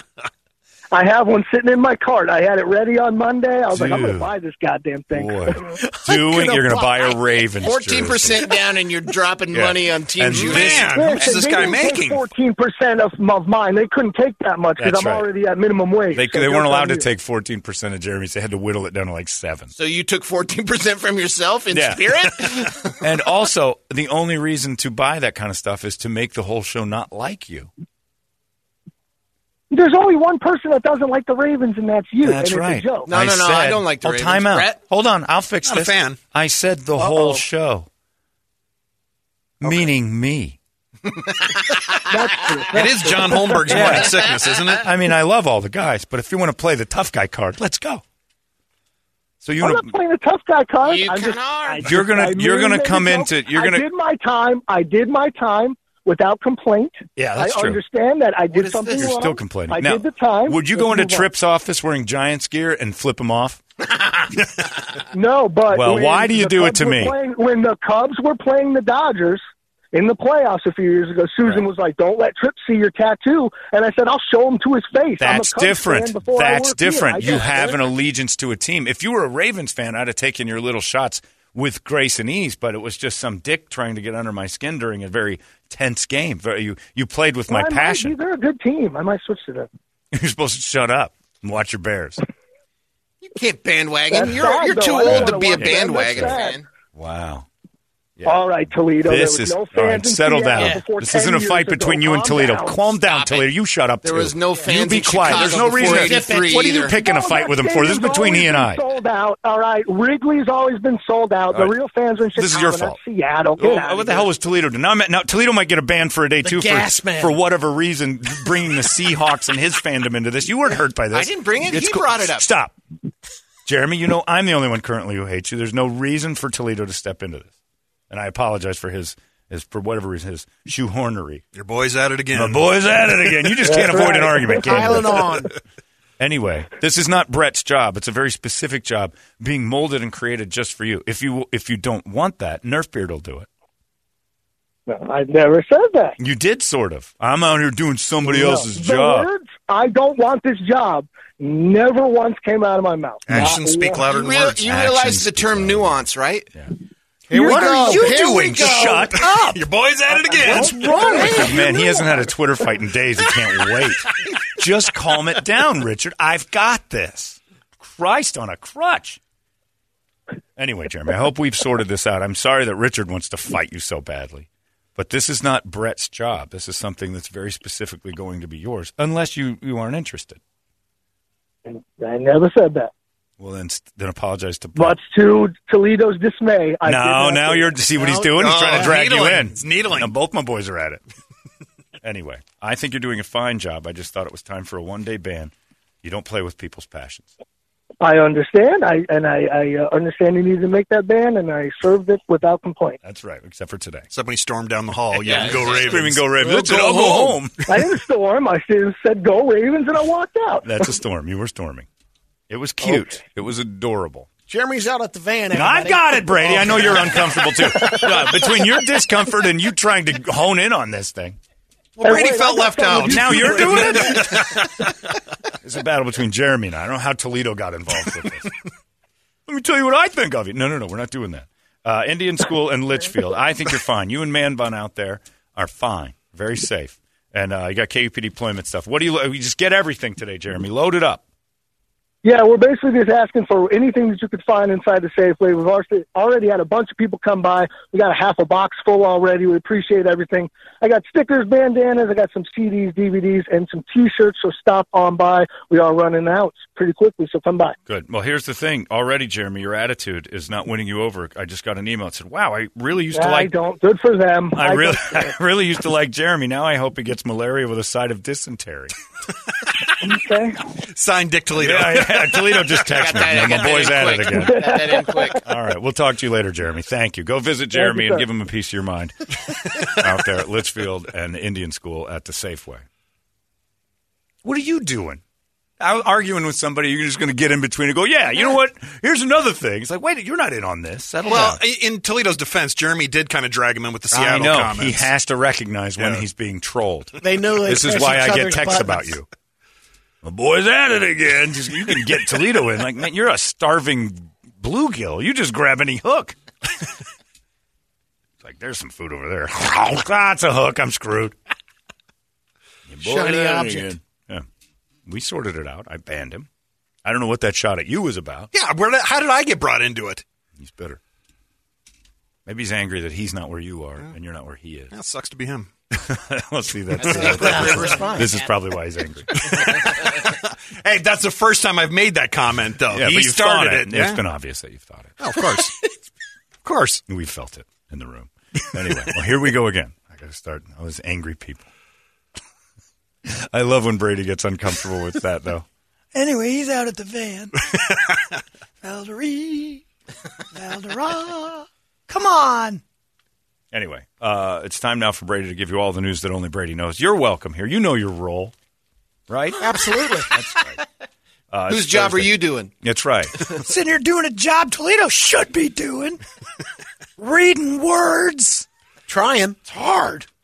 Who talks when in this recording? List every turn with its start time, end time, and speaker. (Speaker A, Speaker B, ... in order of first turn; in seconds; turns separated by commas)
Speaker A: 0.9-5.8, Speaker B: 3.7-4.3, Speaker B: 5.1-8.5, Speaker C: 6.1-7.0, Speaker D: 7.6-11.3, Speaker B: 9.5-10.9, Speaker E: 10.3-12.2, Speaker A: 10.8-17.1, Speaker B: 14.8-15.3, Speaker B: 16.1-19.7, Speaker D: 19.7-23.0, Speaker B: 21.7-27.7, Speaker A: 29.7-33.1, Speaker B: 32.2-37.9, Speaker D: 33.1-34.8, Speaker E: 35.6-36.2, Speaker C: 37.0-37.4, Speaker B: 39.6-40.6, Speaker A: 42.1-44.1, Speaker E: 42.7-44.9, Speaker B: 43.7-44.1, Speaker B: 44.8-48.0, Speaker B: 49.4-49.9, Speaker A: 49.6-61.3, Speaker D: 50.9-52.0, Speaker B: 51.8-53.9, Speaker B: 57.2-57.8, Speaker D: 58.5-59.1, Speaker B: 59.0-63.6, Speaker A: 65.1-77.8, Speaker B: 65.7-67.2, Speaker B: 75.2-88.2, Speaker A: 87.5-89.7, Speaker B: 90.1-92.2, Speaker D: 93.2-96.6, Speaker A: 94.1-96.6, Speaker B: 95.0-96.4, Speaker B: 97.0-97.5, Speaker B: 98.2-108.8, Speaker A: 98.2-102.8, Speaker D: 103.1-103.5, Speaker D: 104.0-107.0, Speaker C: 105.3-106.7, Speaker A: 106.9-114.3, Speaker B: 112.3-113.0, Speaker B: 113.6-122.7, Speaker C: 116.4-117.3, Speaker D: 121.1-122.5, Speaker B: 123.7-127.5, Speaker B: 128.1-131.4, Speaker E: 131.6-132.7, Speaker B: 132.3-135.4, Speaker A: 133.6-134.9, Speaker C: 134.6-135.5, Speaker B: 136.2-143.5, Speaker A: 144.9-146.2, Speaker B: 146.2-149.3, Speaker A: 148.2-154.1, Speaker E: 153.3-154.7, Speaker B: 153.3-153.6, Speaker D: 154.1-156.5, Speaker B: 154.6-156.0, Speaker C: 157.3-159.4, Speaker B: 157.3-159.6, Speaker A: 157.4-158.7, Speaker E: 159.5-161.2, Speaker A: 160.3-162.3, Speaker B: 160.5-169.2, Speaker C: 160.6-161.6, Speaker B: 170.6-180.4, Speaker A: 181.7-182.9, Speaker B: 183.4-185.0, Speaker A: 184.8-187.8, Speaker B: 186.8-191.0, Speaker C: 188.0-188.4, Speaker E: 188.3-190.1, Speaker B: 192.0-197.3, Speaker A: 198.0-203.0, Speaker B: 203.0-204.1, Speaker E: 204.1-207.4, Speaker B: 205.2-207.6, Speaker D: 205.2-206.0, Speaker A: 207.7-210.9, Speaker B: 210.6-211.9, Speaker B: 212.5-214.3, Speaker C: 214.5-217.4, Speaker B: 215.5-221.4, Speaker A: 217.4-218.7, Speaker A: 222.0-224.5, Speaker E: 222.0-224.2, Speaker B: 223.1-224.8, Speaker B: 225.6-228.5, Speaker B: 229.5-241.2, Speaker A: 242.2-257.8, Speaker B: 257.9-263.5, Speaker A: 263.1-265.4, Speaker B: 264.6-269.0, Speaker A: 270.0-270.6, Speaker E: 270.9-272.6, Speaker B: 271.5-282.8, Speaker D: 272.9-275.4, Speaker A: 274.3-275.5, Speaker A: 277.7-278.3, Speaker B: 284.4-285.2, Speaker B: 285.8-291.6, Speaker E: 291.2-295.1, Speaker B: 294.1-299.3, Speaker E: 296.0-296.2, Speaker C: 297.2-299.2, Speaker B: 300.2-306.4, Speaker B: 308.4-311.4, Speaker B: 312.9-314.4, Speaker C: 313.0-313.9, Speaker B: 315.1-316.5, Speaker B: 317.1-318.5, Speaker E: 318.5-320.2, Speaker B: 320.6-321.0, Speaker B: 322.5-324.9, Speaker E: 324.9-325.7, Speaker B: 325.9-329.9, Speaker D: 327.0-328.5, Speaker C: 327.2-328.3, Speaker E: 329.4-334.2, Speaker B: 332.9-335.5, Speaker E: 335.2-335.8, Speaker E: 336.6-337.0, Speaker B: 337.1-341.7, Speaker B: 343.2-348.3, Speaker B: 348.8-349.8, Speaker B: 350.5-352.8, Speaker B: 353.7-358.5, Speaker B: 359.3-359.7, Speaker C: 359.6-360.3, Speaker B: 360.3-360.8, Speaker B: 361.5-366.2, Speaker D: 361.7-362.7, Speaker B: 367.2-368.7, Speaker C: 369.1-369.6, Speaker B: 369.7-370.3